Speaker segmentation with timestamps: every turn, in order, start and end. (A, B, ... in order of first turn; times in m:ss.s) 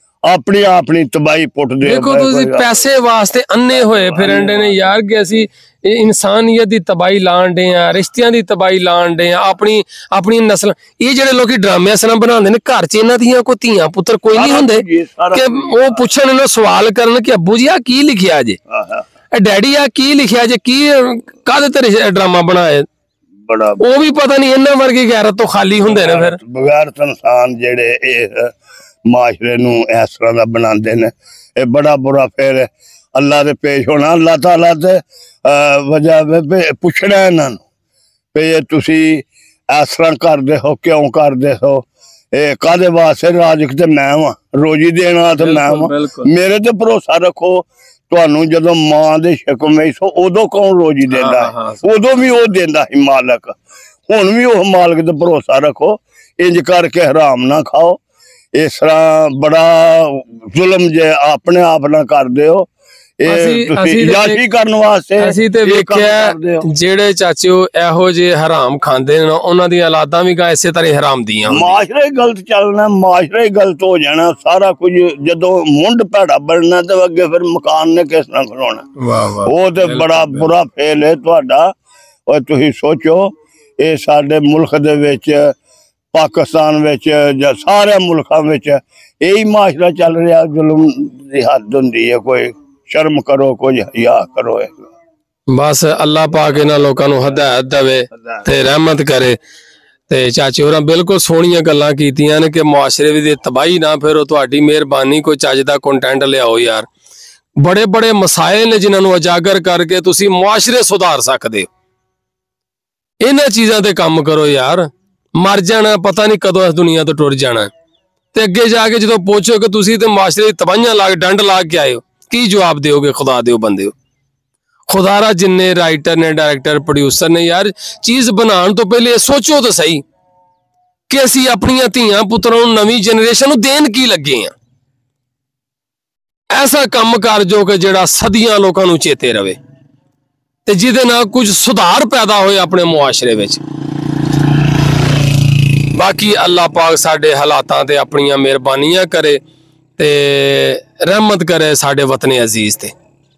0:00.2-0:02.7 A
0:01.8-0:18.6 B
0:03.7-0:04.8 A
0:14.3-0:16.0 A
0:18.7-0:19.0 A
0:19.3-0:22.9 B
0:23.4-0:23.8 A
0:23.8-0:26.4 B
0:25.8-0:28.5 A
0:29.1-0:37.6 A
0:38.3-0:53.6 A
0:45.4-0:46.3 B
0:51.1-0:51.8 B
0:54.1-0:58.0 A
0:58.5-1:02.7 A
1:03.2-1:06.6 A
1:03.3-1:04.4 B
1:05.2-1:11.8 B
1:11.5-1:18.9 A
1:19.0-1:20.5 B
1:19.4-1:21.7 A
1:22.3-1:25.5 A
1:26.1-1:34.8 A
1:35.5-1:39.4 B
1:40.1-1:46.9 B
1:47.6-1:51.7 B
1:53.2-1:57.7 B
1:58.3-2:03.9 B
2:04.9-2:10.0 B
2:11.1-2:14.5 B
2:16.5-2:19.6 B
2:20.6-2:23.6 B
2:25.9-2:29.4 B
2:30.0-2:32.9 B